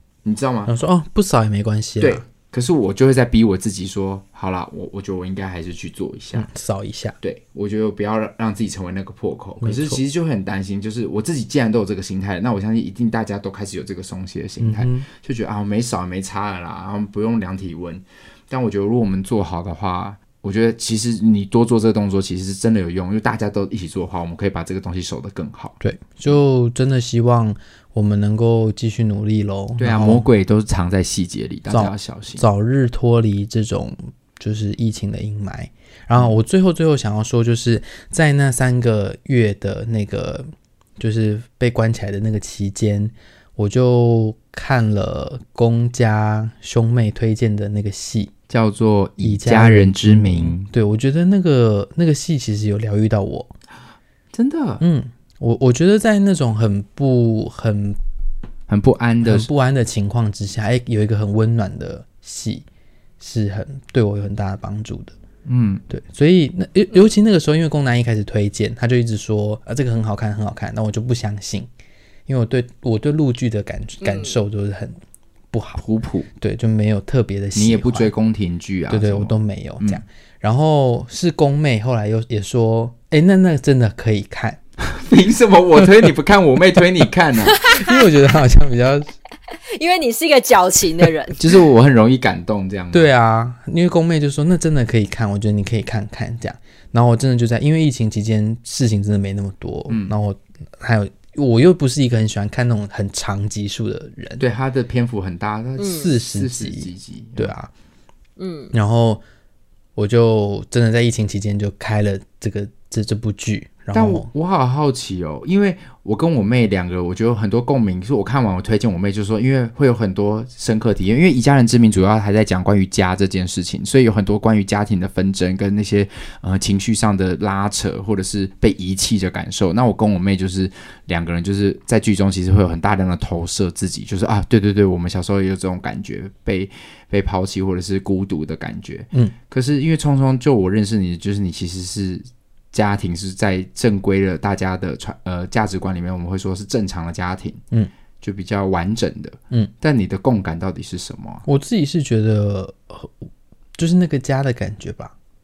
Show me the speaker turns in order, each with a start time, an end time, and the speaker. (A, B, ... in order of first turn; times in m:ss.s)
0:00.2-0:00.7 A
0:00.6-0:02.2 B
0:02.0-0:06.5 A
0:06.3-0:07.2 B
0:07.2-0:25.8 A
0:09.6-0:10.0 B
0:14.6-0:15.1 B
0:25.8-0:30.2 B
0:29.8-0:32.4 A
0:31.7-0:48.3 B
0:48.5-0:50.7 A
0:49.2-0:53.5 B
0:54.3-0:54.8 A
0:54.8-0:58.0 B
0:58.7-0:59.5 A
0:59.2-1:02.6 B
1:03.2-1:05.1 B
1:05.4-1:05.8 A
1:05.9-1:11.7 B
1:12.3-1:15.0 B
1:14.0-1:14.4 C
1:15.5-1:15.8 B
1:15.8-1:16.3 A
1:16.4-1:18.1 B
1:17.5-1:20.0 A
1:18.9-1:24.6 B
1:24.8-1:27.6 A
1:27.5-1:28.0 C
1:27.6-1:29.1 B
1:29.5-1:31.5 C
1:31.3-1:33.1 A
1:32.9-1:44.4 B
1:39.9-1:40.1 A
1:44.4-1:47.5 A
1:45.8-1:46.1 C
1:45.9-1:47.7 B
1:48.4-1:48.7 C
1:48.7-1:49.2 B
1:50.0-1:54.3 B
1:53.9-2:27.6 A
2:28.2-2:31.4 A
2:31.4-2:35.1 B